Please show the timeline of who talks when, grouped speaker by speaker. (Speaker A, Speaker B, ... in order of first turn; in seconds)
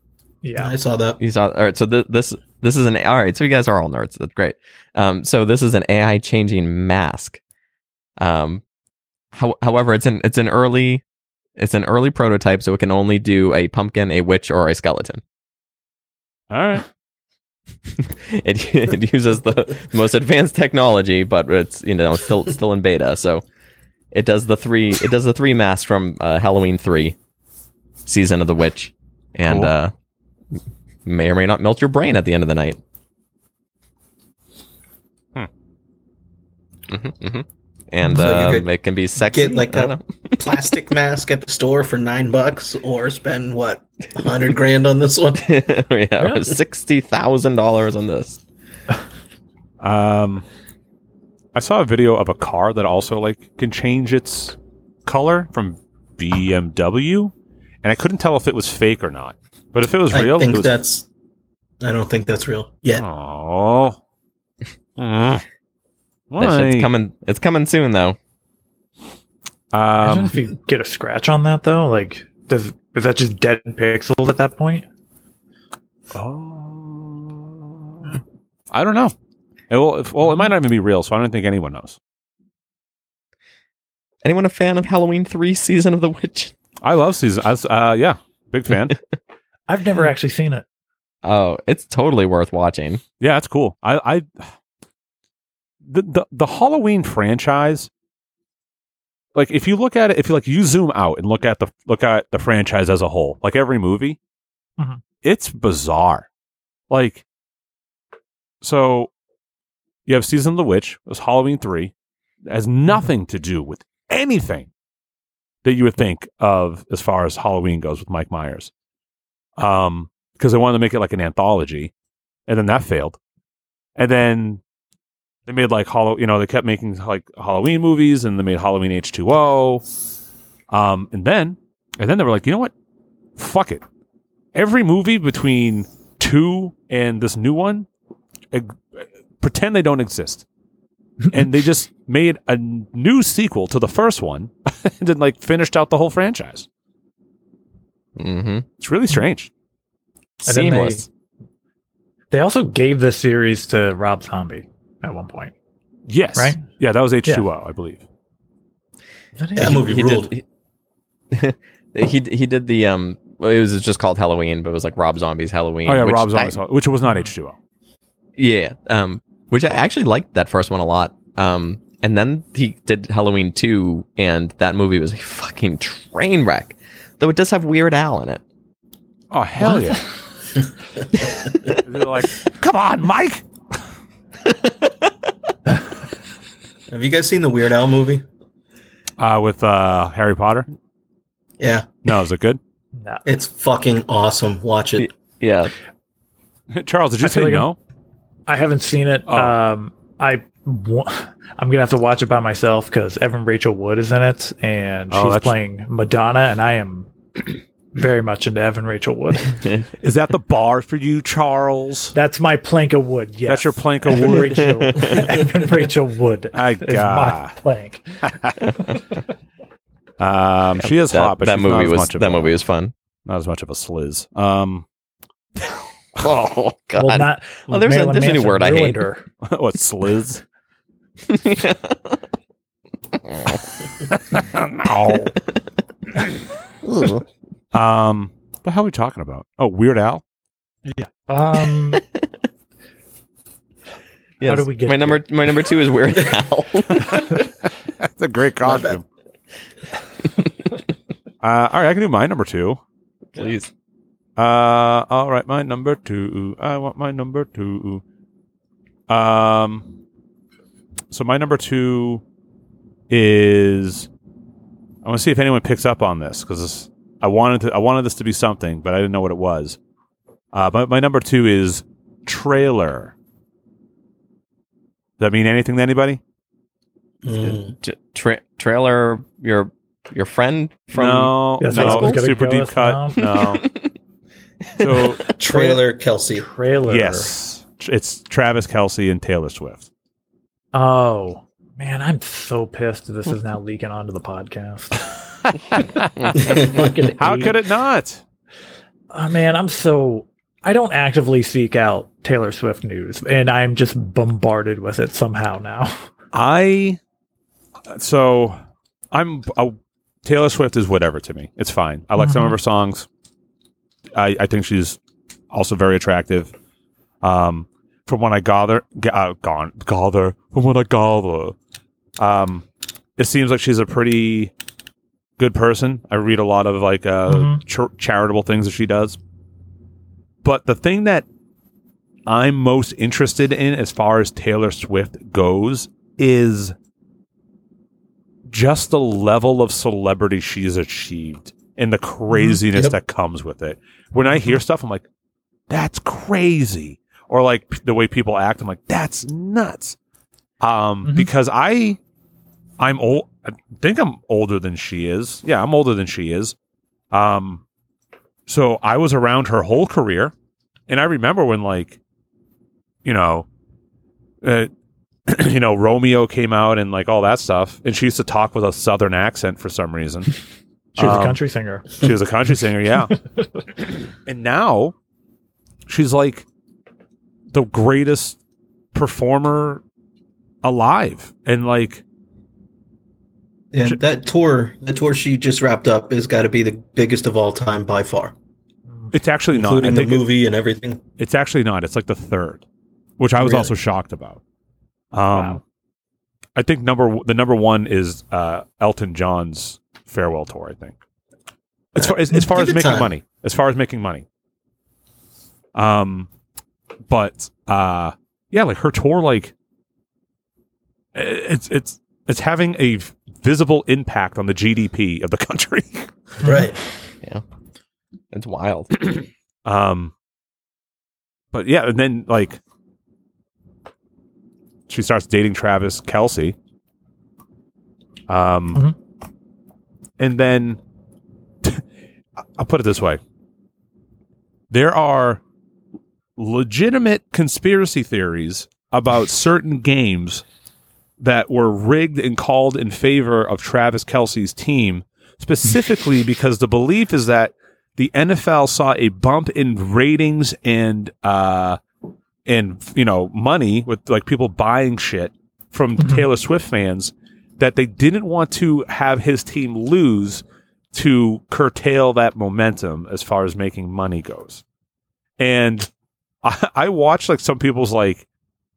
Speaker A: 0.4-0.7, 46.2-46.5, 70.0-74.8, 89.7-90.6, 150.4-151.0, 152.3-155.5, 159.4-159.8, 192.9-193.2, 197.2-197.7, 198.5-207.1, 207.9-209.6, 212.1-218.2, 226.9-229.2, 240.8-242.0, 244.4-245.2, 281.6-283.2, 285.3-285.8, 286.4-287.3, 290.7-295.0, 295.8-297.5, 299.1-306.1, 312.2-312.6, 327.3-327.6, 342.3-342.6, 344.2-344.6, 371.0-372.1, 395.3-395.6, 416.4-416.7
Speaker B: 0.5-1.2, 38.1-38.7, 39.2-45.5, 60.1-61.1, 61.8-63.0, 159.6-160.3, 186.9-188.2, 191.6-191.9, 193.2-195.1, 277.2-277.7, 285.4-286.5, 383.7-388.3, 389.5-391.0, 393.4-393.7, 402.0-403.1, 416.4-416.8
Speaker C: 1.2-7.4, 8.2-8.6, 9.3-11.0, 11.6-15.2, 18.0-23.4, 24.1-27.2, 28.1-29.9, 31.1-32.8, 36.9-40.7, 45.4-48.4, 66.4-68.2, 84.2-86.5, 91.2-93.0, 148.2-148.7, 150.4-151.1, 159.6-160.4, 161.3-166.6, 168.4-178.4, 181.2-181.8, 184.4-185.3, 195.0-195.7, 214.6-215.3, 220.8-222.9, 226.2-229.0, 231.3-232.2, 233.1-233.6, 236.8-237.2, 241.9-242.3, 244.4-247.2, 253.3-253.7, 277.4-282.2, 283.2-283.9, 284.7-285.2, 418.3-419.1
Speaker D: 16.5-16.9, 29.4-29.7, 49.8-50.4, 51.5-57.3, 57.8-60.7, 63.0-64.0, 65.0-65.4, 66.3-66.9, 69.7-70.3, 76.1-78.2, 78.7-79.1, 79.7-82.0, 86.8-89.0, 93.2-94.5, 95.8-97.9, 99.3-104.2, 105.2-106.3, 106.9-107.2, 108.6-109.1, 110.1-111.9, 112.5-114.7, 115.6-118.7, 119.6-121.9, 122.5-123.2, 124.0-124.6, 125.5-129.8, 130.7-132.7, 133.4-133.8, 134.5-137.9, 138.5-140.4, 141.3-146.7, 148.8-149.5, 156.1-158.0, 165.8-167.6, 179.3-180.0, 181.7-183.4, 189.2-190.7, 192.0-192.6, 196.7-197.8, 199.3-199.6, 205.1-205.5, 210.0-212.1, 213.5-214.7, 216.5-217.6, 218.2-218.8, 220.2-222.5, 223.2-224.8, 229.4-230.4, 234.1-235.3, 237.7-240.2, 247.4-249.0, 251.4-252.8, 254.4-258.0, 259.1-259.8, 261.1-262.2, 263.1-264.1, 265.0-269.8, 270.5-273.1, 275.2-276.2, 280.9-283.7, 284.8-285.3, 286.9-289.9, 295.5-298.2, 306.3-307.0, 307.9-308.6, 309.1-313.1, 314.1-315.0, 315.5-316.5, 317.2-321.6, 322.2-322.6, 323.2-324.5, 325.4-329.2, 330.4-331.2, 332.2-336.7, 338.5-345.0, 345.7-350.0, 350.6-352.0, 352.8-356.5, 357.1-357.6, 358.5-360.3, 360.9-362.0, 363.0-363.5, 364.4-364.7, 365.3-370.3, 371.0-371.4, 371.9-373.1, 374.2-374.9, 375.9-376.4, 377.5-378.4, 378.9-379.8, 380.6-382.0, 389.1-390.2, 391.2-392.6, 393.2-394.4, 395.1-395.6, 396.6-400.9, 401.9-404.2, 405.7-406.3, 407.1-409.5, 411.1-416.1, 419.6-420.1, 421.5-422.6, 424.9-426.6, 428.3-428.8, 430.2-430.8, 432.6-433.2, 434.7-435.4, 436.4-440.4, 441.2-451.8, 452.4-464.6, 465.4-465.9, 466.4-468.2